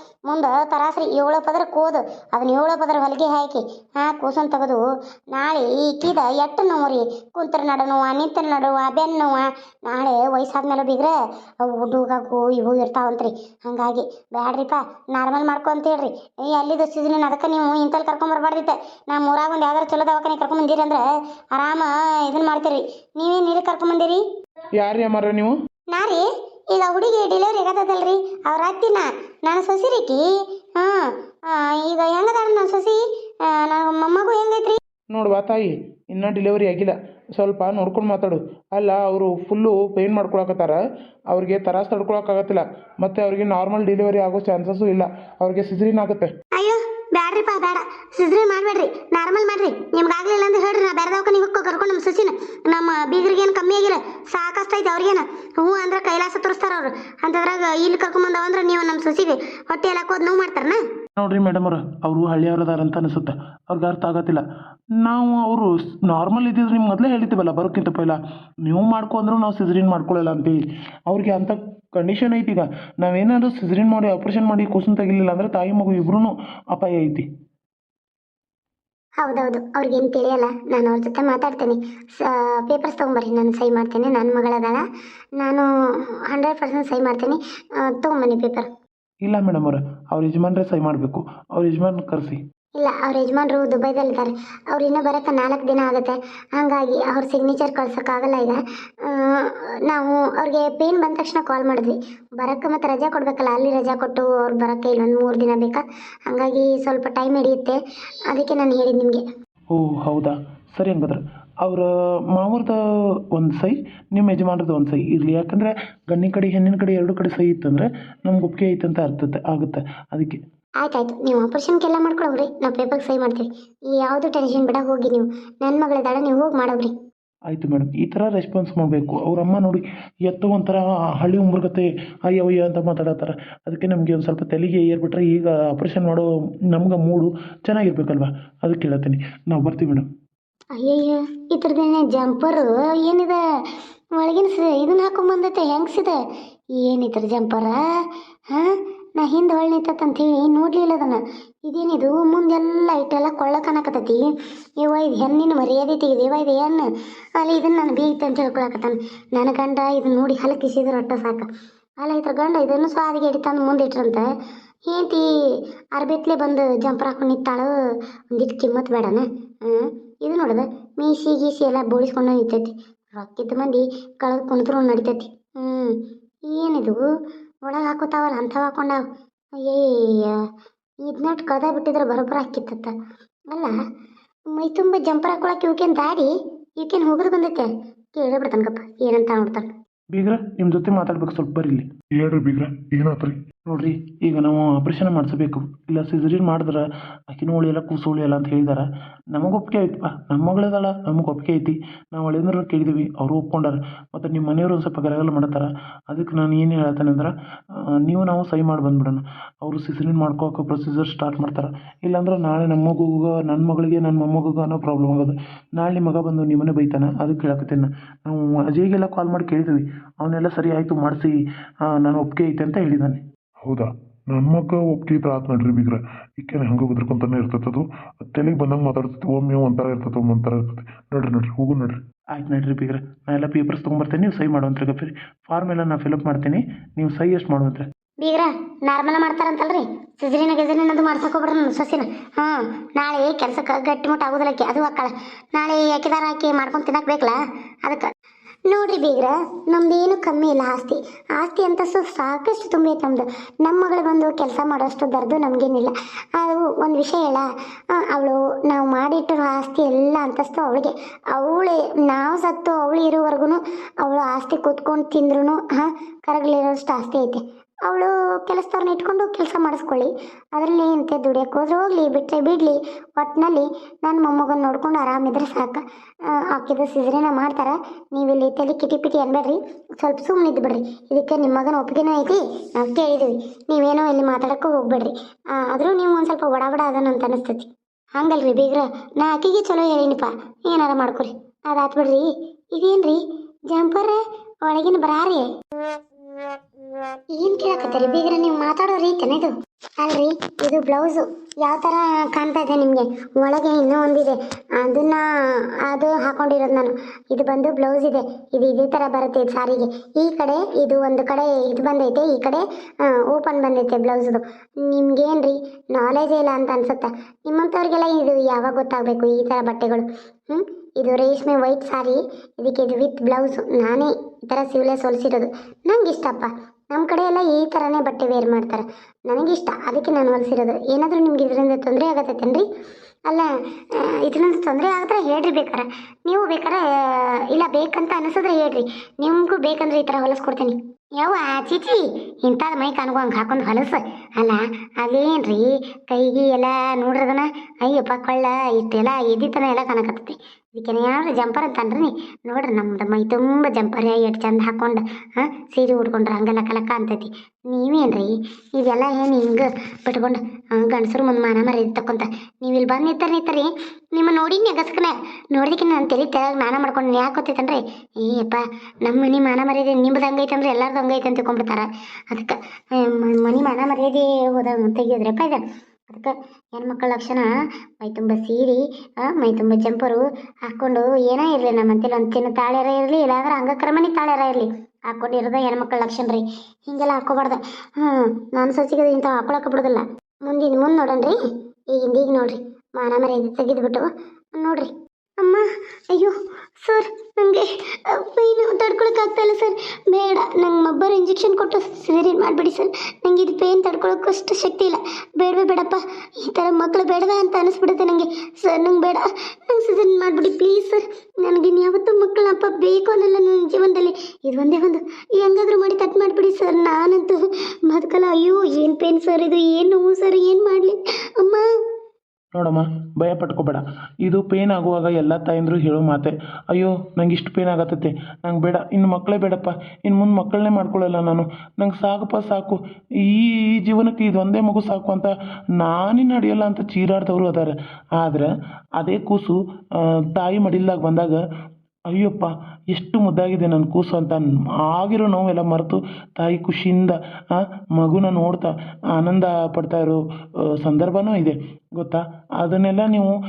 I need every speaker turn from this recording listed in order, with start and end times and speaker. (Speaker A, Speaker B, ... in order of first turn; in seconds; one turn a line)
Speaker A: 0.3-21.0
Speaker A: 21.5-24.2
Speaker B: 24.8-25.5
Speaker A: 25.9-30.2
Speaker A: 30.8-34.8
Speaker B: 35.1-46.3
Speaker A: 46.5-60.8
Speaker B: 61.2-64.4
Speaker B: 65.0-77.3
Speaker A: 79.2-84.8
Speaker A: 85.4-85.7
Speaker A: 86.3-88.7
Speaker B: 89.2-92.4
Speaker A: 92.8-107.8
Speaker A: 108.3-109.2
Speaker B: 109.8-112.8
Speaker B: 113.3-120.4
Speaker A: 120.8-126.9
Speaker B: 127.5-140.1
Speaker A: 140.8-143.4
Speaker A: 144.2-146.2
Speaker A: 146.8-147.8
Speaker A: 148.5-161.5
Speaker A: 162.0-164.3
Speaker A: 164.9-165.2
Speaker A: 165.9-167.7
Speaker A: 168.3-177.0
Speaker A: 177.6-179.0
Speaker A: 179.6-180.4
Speaker A: 181.0-182.9
Speaker A: 183.5-183.8
Speaker A: 184.5-189.7
Speaker B: 190.1-221.3
Speaker B: 221.9-223.2
Speaker C: 223.6-232.0
Speaker B: 232.3-237.9
Speaker A: 238.2-248.1
Speaker A: 248.7-293.2
Speaker A: 293.7-295.5
Speaker A: 297.3-332.6
Speaker A: 333.3-377.5
Speaker A: 378.0-391.4
Speaker A: 391.9-421.6
Speaker B: 422.5-439.6
Speaker B: 440.3-441.4
Speaker B: 442.1-450.2
Speaker B: 450.7-453.4